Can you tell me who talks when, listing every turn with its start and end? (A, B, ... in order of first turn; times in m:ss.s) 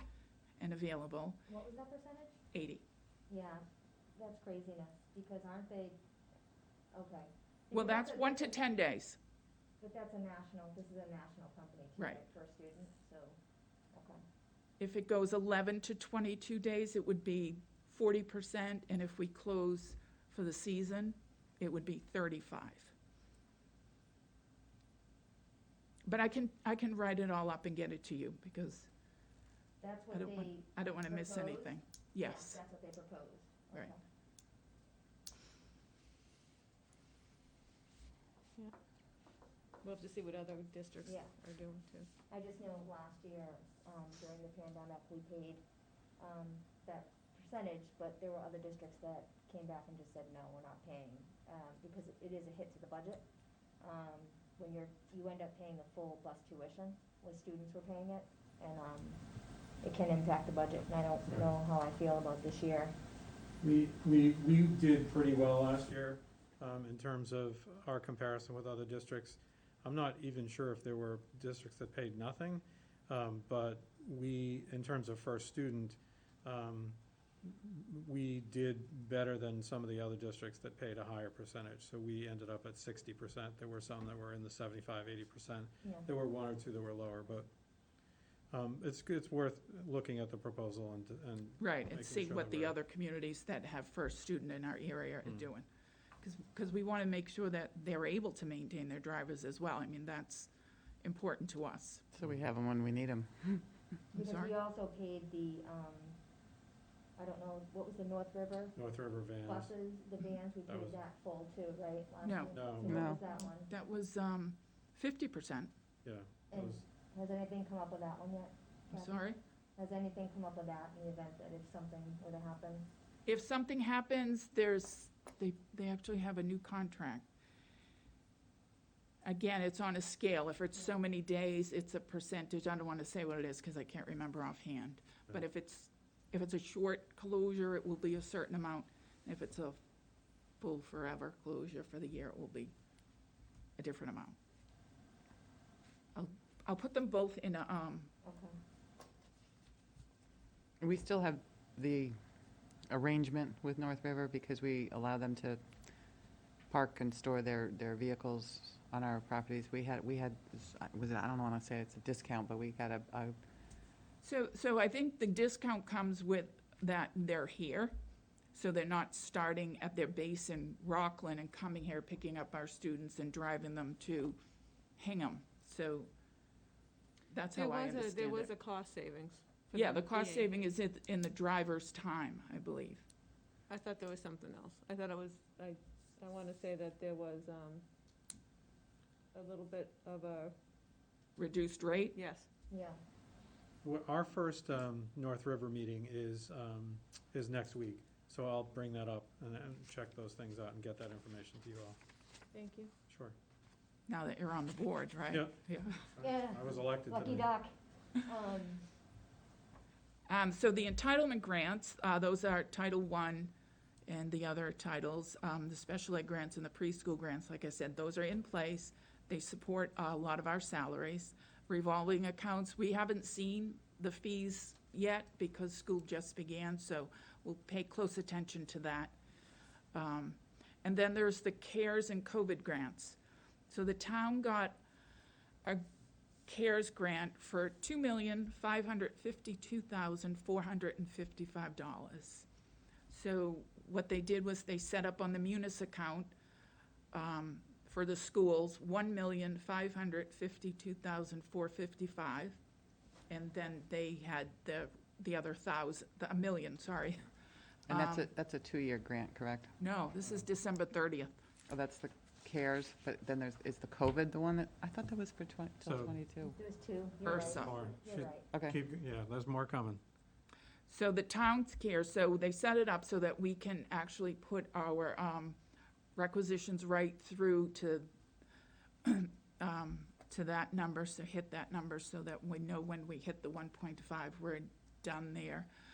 0:00.6-0:01.4 A
0:01.5-0:02.4 B
0:02.5-0:02.8 A
0:03.3-0:03.6 B
0:04.1-0:06.0 B
0:06.9-0:08.6 B
0:07.7-0:09.2 A
0:09.8-0:13.4 B
0:13.9-0:14.2 B
0:14.8-0:22.9 A
0:26.0-0:28.9 A
0:29.8-0:34.0 B
0:30.1-0:32.6 A
0:39.8-0:42.1 C
0:41.0-0:41.4 B
0:42.3-0:45.6 B
0:46.2-0:53.2 B
0:53.8-0:59.2 B
0:59.8-1:02.9 B
1:03.6-1:27.5 D
1:25.8-1:26.1 B
1:28.5-1:32.8 D
1:31.6-1:35.6 A
1:36.2-1:40.5 A
1:41.0-1:42.0 A
1:42.1-1:43.6 E
1:44.1-1:44.5 A
1:44.1-1:46.2 B
1:47.2-1:48.7 B
1:48.8-1:49.7 D
1:49.4-1:53.7 B
1:50.7-1:51.0 D
1:52.2-1:55.7 A
1:52.5-1:53.0 D
1:52.9-1:53.2 E
1:56.0-1:56.8 D
1:56.5-2:02.9 B
1:58.9-1:59.4 A
2:03.2-2:07.2 A
2:09.2-2:19.8 A
2:20.6-2:22.7 A
2:23.8-2:24.4 A
2:26.1-2:28.1 A
2:28.2-2:28.6 B
2:30.8-2:32.2 E
2:32.9-2:35.6 E
2:36.7-2:43.3 E
2:44.2-2:47.9 A
2:48.5-2:54.4 A
2:55.0-2:56.1 A
2:57.3-2:58.5 A
2:57.5-3:00.6 C
2:59.7-3:03.0 A
3:03.7-3:07.8 C
3:09.3-3:10.5 C
3:11.4-3:12.2 A
3:12.1-3:12.5 C
3:12.7-3:13.0 B
3:13.8-3:22.0 D
3:22.5-3:22.9 C
3:23.1-3:23.4 D
3:24.1-3:26.1 A
3:25.3-3:27.5 D
3:26.2-3:27.7 B
3:28.2-3:28.8 B
3:30.3-3:33.5 A
3:34.0-3:49.2 A
3:49.9-3:53.2 A
3:53.7-3:54.8 A
3:56.4-4:02.5 A
4:03.1-4:06.3 A
4:07.1-4:12.6 A
4:13.3-4:17.2 A
4:17.9-4:18.3 A
4:17.9-4:19.8 E
4:19.8-4:21.3 A
4:21.7-4:26.6 E
4:25.8-4:26.2 D
4:26.4-4:28.4 B
4:27.2-4:27.8 A
4:27.2-4:30.0 D
4:28.5-4:28.8 E
4:30.9-4:35.6 A
4:36.2-4:38.1 A
4:39.0-4:45.7 A